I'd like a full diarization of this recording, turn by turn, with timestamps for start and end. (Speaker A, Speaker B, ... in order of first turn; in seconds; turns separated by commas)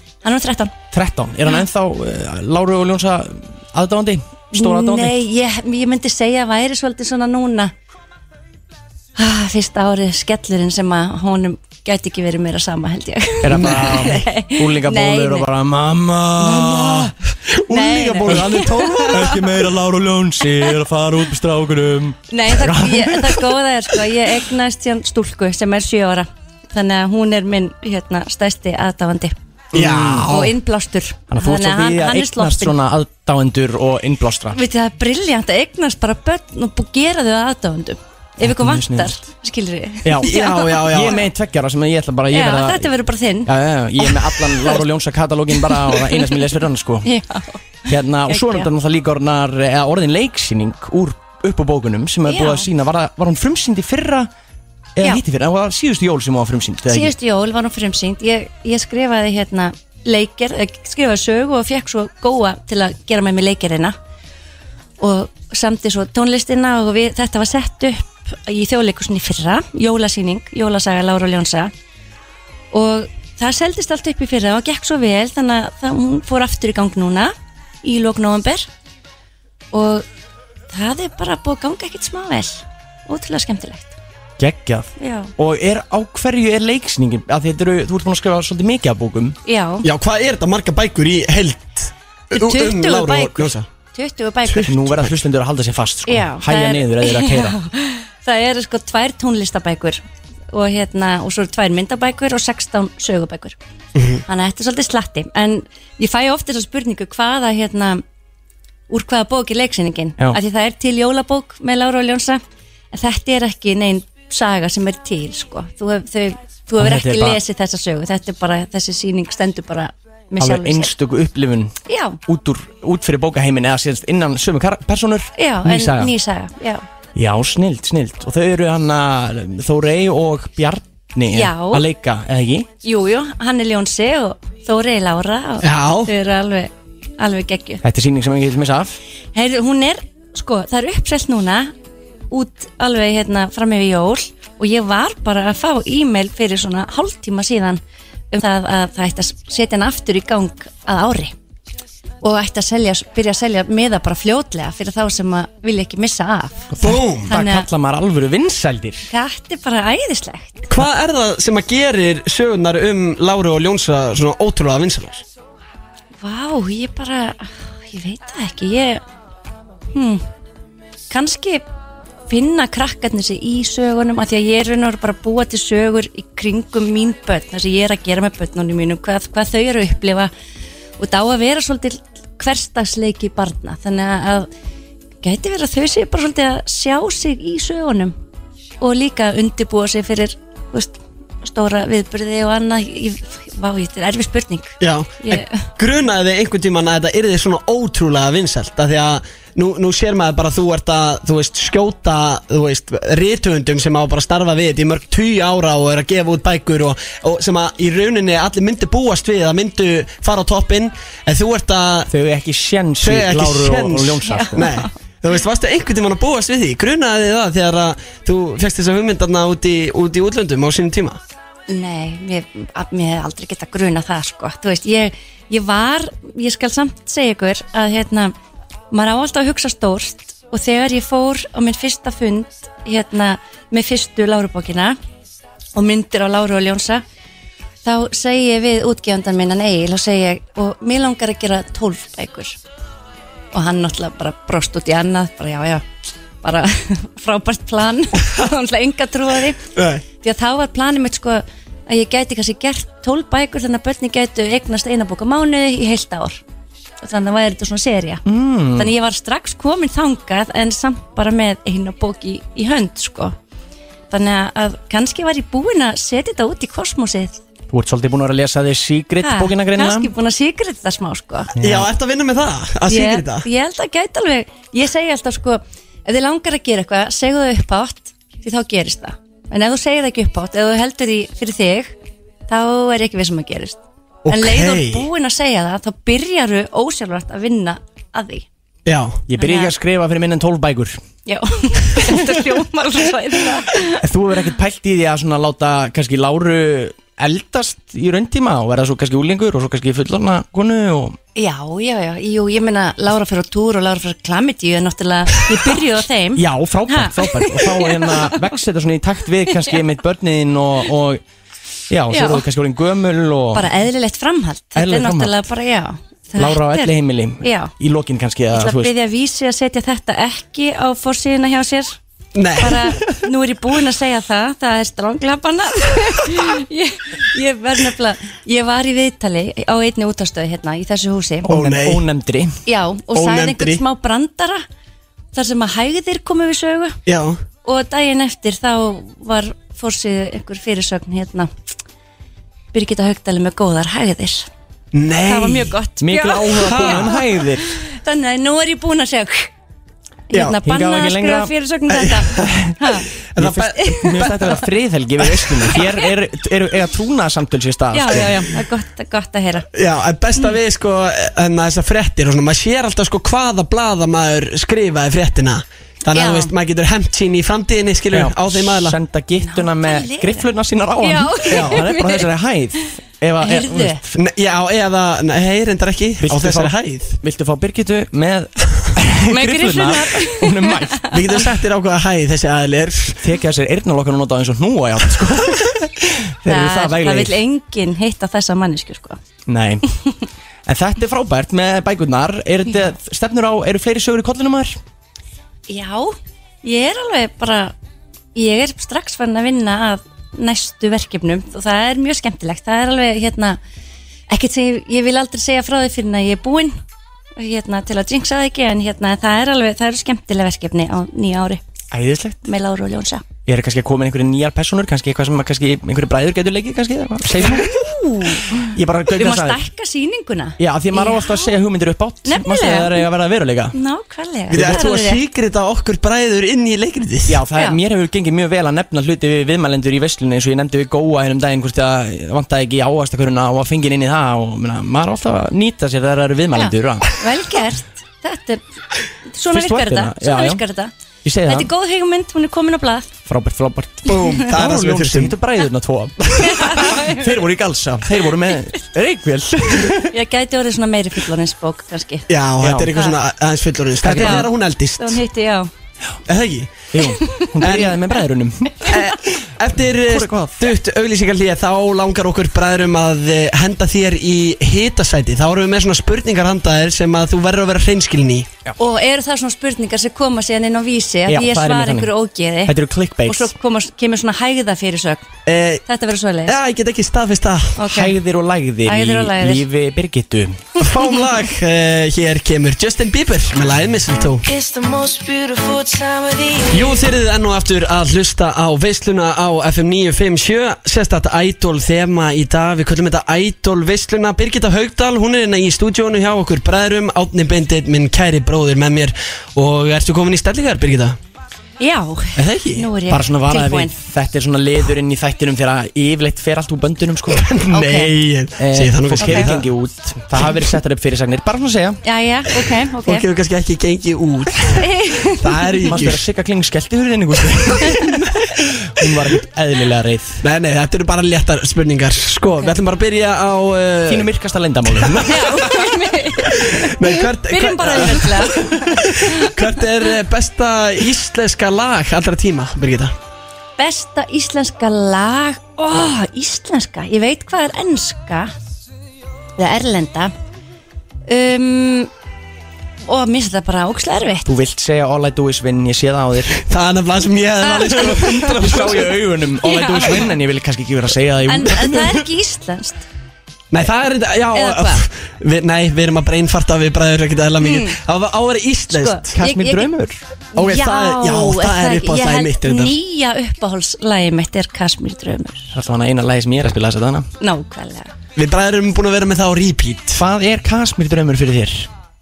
Speaker A: 0.2-0.7, Speaker B: 0.9-5.2, Speaker A: 4.5-7.7, Speaker A: 9.2-15.5, Speaker B: 13.4-17.1, Speaker C: 13.5-13.9, Speaker A: 16.4-17.1, Speaker C: 16.6-17.0, Speaker B: 17.7-23.6, Speaker A: 17.7-19.4, Speaker C: 17.9-18.5, Speaker A: 22.3-29.3, Speaker B: 29.7-30.5, Speaker C: 29.7-30.5, Speaker A: 30.2-32.8, Speaker B: 31.3-34.6, Speaker A: 34.5-41.2, Speaker B: 38.4-39.3, Speaker B: 40.0-42.9, Speaker C: 40.2-41.2, Speaker A: 42.3-44.8, Speaker B: 43.4-47.1, Speaker A: 45.6-46.5, Speaker A: 47.0-47.6, Speaker B: 47.9-54.3, Speaker A: 48.3-48.7, Speaker A: 52.3-52.7, Speaker B: 54.9-57.1, Speaker A: 56.9-63.9, Speaker A: 65.0-71.7, Speaker A: 72.7-78.7, Speaker A: 79.7-80.0, Speaker A: 80.7-83.9, Speaker B: 84.4-89.4, Speaker A: 85.0-85.3, Speaker A: 89.5-89.8, Speaker C: 89.8-93.7, Speaker A: 92.3-94.9, Speaker C: 94.5-95.0, Speaker B: 94.7-97.6, Speaker A: 96.0-103.5, Speaker C: 104.0-104.2, Speaker A: 104.3-108.0, Speaker A: 108.9-112.4, Speaker A: 112.9-120.9, Speaker B: 116.8-117.4, Speaker B: 120.4-126.1, Speaker A: 121.9-122.2, Speaker A: 125.4-126.8, Speaker B: 127.1-132.7, Speaker A: 131.3-131.8, Speaker A: 132.8-137.8, Speaker C: 135.6-136.1, Speaker B: 137.8-139.0, Speaker A: 139.3-141.7, Speaker A: 142.3-147.8, Speaker A: 148.3-151.3, Speaker A: 152.2-157.7, Speaker B: 156.7-159.1, Speaker C: 156.8-157.3, Speaker A: 159.1-160.7, Speaker C: 160.7-165.2, Speaker A: 166.2-169.0, Speaker A: 169.9-170.2, Speaker A: 171.1-171.6, Speaker A: 172.3-180.3, Speaker A: 181.0-184.5, Speaker A: 185.2-188.1, Speaker A: 188.8-195.6, Speaker C: 194.8-212.1, Speaker B: 212.1-214.7, Speaker C: 213.0-221.2, Speaker A: 214.2-214.9, Speaker A: 221.7-228.3, Speaker A: 228.9-235.0, Speaker A: 235.7-237.0, Speaker A: 237.8-242.6, Speaker A: 243.5-245.8, Speaker A: 246.4-249.6, Speaker C: 249.8-250.0, Speaker A: 250.2-256.4, Speaker A: 257.0-258.2, Speaker B: 258.2-258.9, Speaker A: 258.7-263.3, Speaker A: 264.1-267.4, Speaker B: 267.7-270.1, Speaker A: 269.2-271.5, Speaker B: 271.6-271.9, Speaker C: 271.6-273.5, Speaker A: 272.9-281.9, Speaker A: 282.5-288.4, Speaker C: 284.2-285.1, Speaker C: 288.9-289.2, Speaker B: 289.3-291.0, Speaker A: 289.4-289.7, Speaker A: 291.2-294.0, Speaker B: 294.0-301.2, Speaker A: 301.4-308.4, Speaker B: 306.3-311.2, Speaker B: 311.9-313.7, Speaker A: 312.1-312.4, Speaker A: 313.5-317.7, Speaker B: 314.8-315.4, Speaker B: 316.4-318.9, Speaker A: 318.5-322.0, Speaker C: 322.3-323.0, Speaker A: 322.6-331.5, Speaker B: 331.4-332.6, Speaker C: 331.5-332.0, Speaker A: 332.6-334.6, Speaker C: 333.1-333.8, Speaker A: 335.3-337.0, Speaker C: 337.1-337.4, Speaker A: 337.6-341.5, Speaker A: 342.7-344.5, Speaker C: 344.9-345.7, Speaker A: 345.2-349.5, Speaker B: 346.0-347.6, Speaker C: 346.6-347.2, Speaker A: 350.3-353.1, Speaker C: 350.3-350.6, Speaker B: 350.6-351.5, Speaker C: 351.9-352.5, Speaker B: 352.3-352.8, Speaker C: 353.3-354.4, Speaker B: 353.4-358.5, Speaker A: 353.8-354.6, Speaker C: 355.3-355.8, Speaker A: 355.7-356.0, Speaker A: 357.9-359.7, Speaker C: 359.7-368.9, Speaker A: 366.1-366.5, Speaker B: 368.1-374.2, Speaker A: 369.4-370.5, Speaker A: 371.0-372.3, Speaker C: 371.5-371.8, Speaker A: 373.4-374.0, Speaker C: 374.1-377.2, Speaker B: 376.2-381.0, Speaker A: 379.3-381.1, Speaker C: 381.1-383.2, Speaker B: 383.2-387.4, Speaker A: 386.4-389.2, Speaker B: 389.5-389.8, Speaker B: 390.6-394.8, Speaker A: 395.7-397.7, Speaker A: 398.3-403.6, Speaker A: 404.3-406.8, Speaker A: 407.4-411.6, Speaker B: 411.9-412.4, Speaker A: 412.4-413.2, Speaker B: 413.4-417.9, Speaker A: 417.4-421.5, Speaker B: 418.5-419.6, Speaker B: 420.6-423.7, Speaker A: 422.2-423.1, Speaker A: 423.7-425.2, Speaker B: 424.5-424.8, Speaker C: 424.5-427.4, Speaker B: 427.3-437.1, Speaker A: 436.5-438.6, Speaker A: 439.2-440.9, Speaker B: 439.5-440.6, Speaker B: 441.2-441.7, Speaker A: 441.4-443.1, Speaker B: 443.2-450.1, Speaker C: 444.0-445.3, Speaker A: 446.4-447.3, Speaker A: 450.0-452.2, Speaker C: 452.3-455.2, Speaker B: 452.6-453.0, Speaker B: 454.0-454.5, Speaker A: 454.1-455.7, Speaker C: 456.3-456.8, Speaker B: 456.9-459.0, Speaker A: 457.2-457.5, Speaker C: 457.6-458.0, Speaker C: 458.8-468.5, Speaker B: 460.0-460.8, Speaker A: 468.8-475.3, Speaker B: 471.3-472.1, Speaker B: 472.6-473.5, Speaker C: 475.4-475.8, Speaker A: 475.9-476.6, Speaker C: 476.5-477.8, Speaker A: 477.8-478.1, Speaker B: 477.8-480.6, Speaker A: 478.8-479.6, Speaker C: 480.8-484.4, Speaker D: 484.5-487.0, Speaker C: 486.7-501.2, Speaker A: 501.8-503.9, Speaker C: 502.4-502.9, Speaker B: 503.1-507.6, Speaker C: 507.3-509.6, Speaker A: 507.7-508.1, Speaker B: 508.6-512.0, Speaker A: 509.2-509.5, Speaker A: 512.0-513.2, Speaker C: 513.0-516.2, Speaker A: 514.8-515.9, Speaker B: 515.9-520.4, Speaker C: 520.4-524.3, Speaker B: 524.1-525.6, Speaker C: 524.9-525.3, Speaker A: 525.2-529.5, Speaker C: 526.4-533.1, Speaker A: 533.8-538.5, Speaker A: 539.6-540.3, Speaker A: 541.3-542.1, Speaker A: 543.0-544.5, Speaker B: 544.5-546.6, Speaker C: 546.6-549.1, Speaker A: 547.6-548.6, Speaker B: 548.2-552.2, Speaker A: 549.6-550.3, Speaker A: 551.5-553.0, Speaker C: 553.7-559.4, Speaker A: 554.5-555.0, Speaker A: 557.6-558.0, Speaker A: 558.9-559.9, Speaker B: 559.3-560.2, Speaker A: 560.5-565.7, Speaker C: 560.5-563.0, Speaker B: 565.7-567.3, Speaker A: 567.4-568.1, Speaker C: 568.4-570.2, Speaker B: 570.1-571.9